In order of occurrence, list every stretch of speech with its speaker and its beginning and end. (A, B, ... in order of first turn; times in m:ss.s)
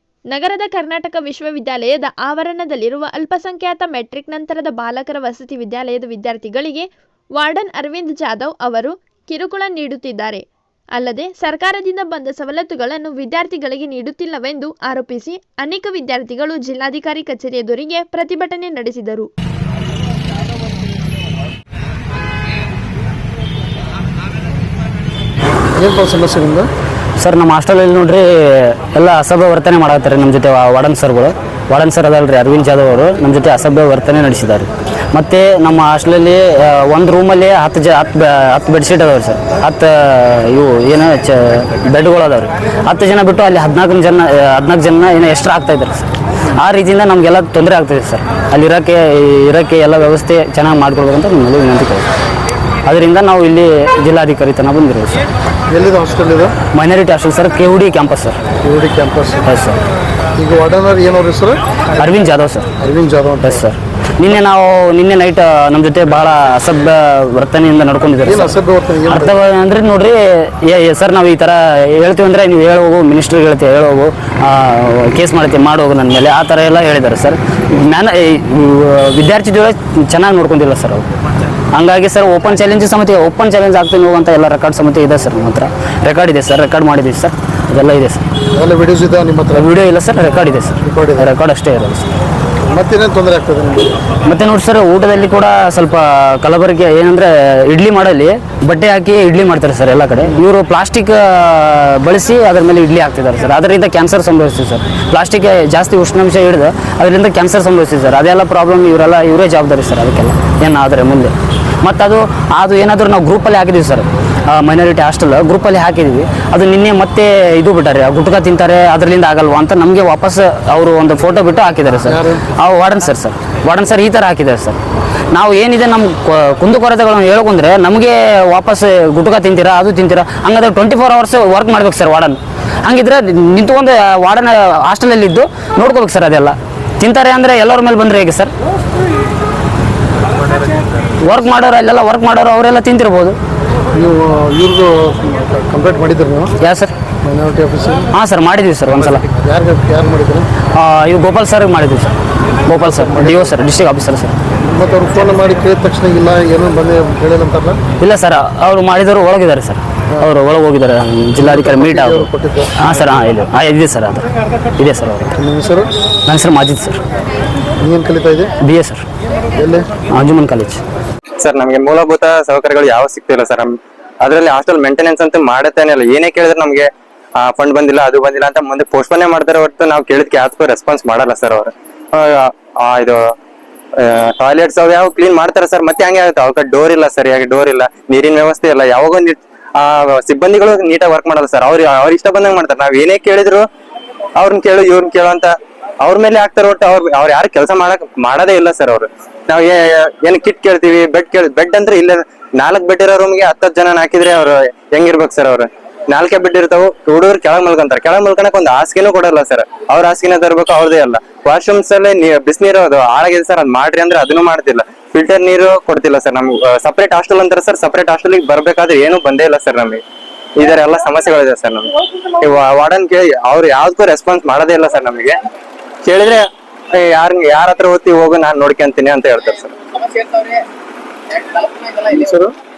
0:00.3-0:19.3 A
0:25.8-0:26.7 B
0:27.2-0:52.1 C
0:52.9-0:55.2 C
0:55.7-0:56.6 B
0:56.7-0:58.4 C
0:58.6-0:59.4 B
0:59.5-0:59.8 C
1:00.4-1:01.6 B
1:02.0-1:02.7 C
1:02.8-1:03.7 B
1:03.4-1:08.6 C
1:08.2-1:09.4 B
1:09.1-1:21.1 C
1:21.7-1:28.2 C
1:28.5-1:29.7 B
1:29.6-1:32.1 C
1:30.8-1:31.3 B
1:32.7-1:34.0 B
1:34.2-2:04.8 C
2:02.0-2:02.5 B
2:05.3-2:18.5 C
2:21.2-2:23.4 C
2:23.9-2:26.6 B
2:26.6-2:26.9 C
2:27.2-2:28.1 B
2:28.1-2:29.3 C
2:29.0-2:30.5 B
2:30.8-2:32.1 C
2:32.7-2:34.3 C
2:32.7-2:33.6 B
2:34.7-2:37.8 B
2:38.0-2:44.2 C
2:41.4-2:42.9 B
2:44.8-2:45.4 C
2:45.4-2:45.9 B
2:46.3-2:47.0 C
2:47.8-2:48.5 B
2:48.6-2:49.0 C
2:49.6-2:49.9 B
2:50.1-2:50.8 C
2:51.4-3:03.2 D
3:04.0-3:13.7 D
3:14.4-3:40.0 D
3:40.6-3:45.4 D
3:46.0-3:50.5 D
3:51.4-3:52.0 D
3:52.1-3:52.5 B